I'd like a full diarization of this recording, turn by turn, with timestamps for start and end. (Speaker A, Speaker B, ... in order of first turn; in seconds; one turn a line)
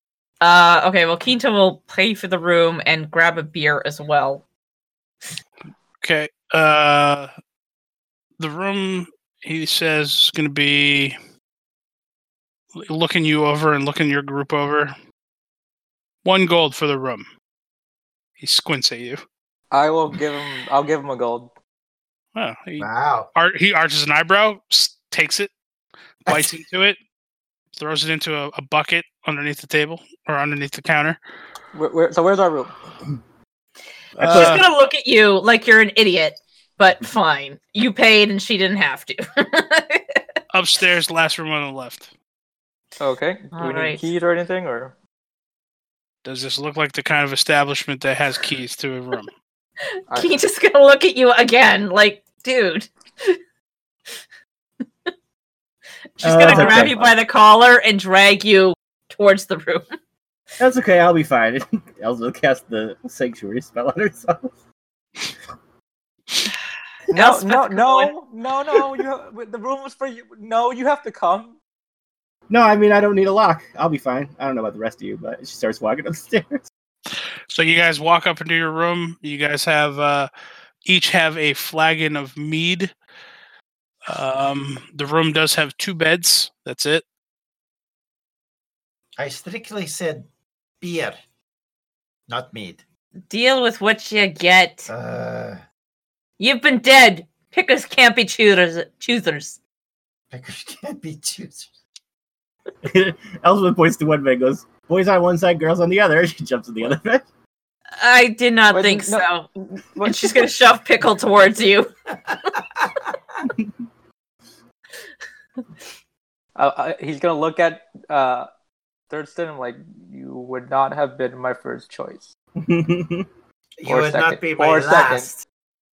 Speaker A: 0.4-4.4
Speaker B: 6.0-7.3
Speaker B: 8.4-11.2
Speaker B: 12.7-14.9
Speaker B: 16.2-17.3
Speaker B: 18.4-19.2
Speaker C: 19.7-21.5
Speaker B: 22.3-25.5
Speaker D: 22.8-23.3
Speaker B: 26.2-27.0
Speaker B: 27.8-31.2
Speaker C: 31.7-32.8
Speaker B: 34.2-34.7
Speaker A: 34.2-40.2
Speaker E: 34.2-34.6
Speaker B: 40.5-42.1
Speaker C: 43.0-44.9
Speaker A: 43.5-44.0
Speaker B: 46.2-49.3
Speaker A: 50.0-53.4
Speaker C: 50.1-50.3
Speaker A: 56.2-59.9
Speaker E: 56.2-57.0
Speaker C: 56.4-57.1
Speaker E: 60.6-64.5
Speaker A: 67.1-68.1
Speaker C: 67.1-71.5
Speaker E: 72.5-76.6
Speaker B: 77.5-80.3
Speaker B: 80.8-82.9
Speaker B: 84.1-87.0
Speaker D: 89.2-90.3
Speaker D: 90.8-91.2
Speaker D: 92.3-92.8
Speaker A: 93.3-94.9
Speaker D: 94.9-95.6
Speaker A: 96.4-99.6
Speaker D: 100.3-101.7
Speaker E: 102.8-107.3
Speaker A: 108.0-109.5
Speaker C: 108.7-110.5
Speaker A: 110.0-111.9
Speaker E: 113.4-113.7
Speaker C: 116.5-118.5
Speaker C: 119.1-122.3
Speaker E: 122.6-123.3
Speaker D: 123.8-125.4
Speaker C: 123.8-125.3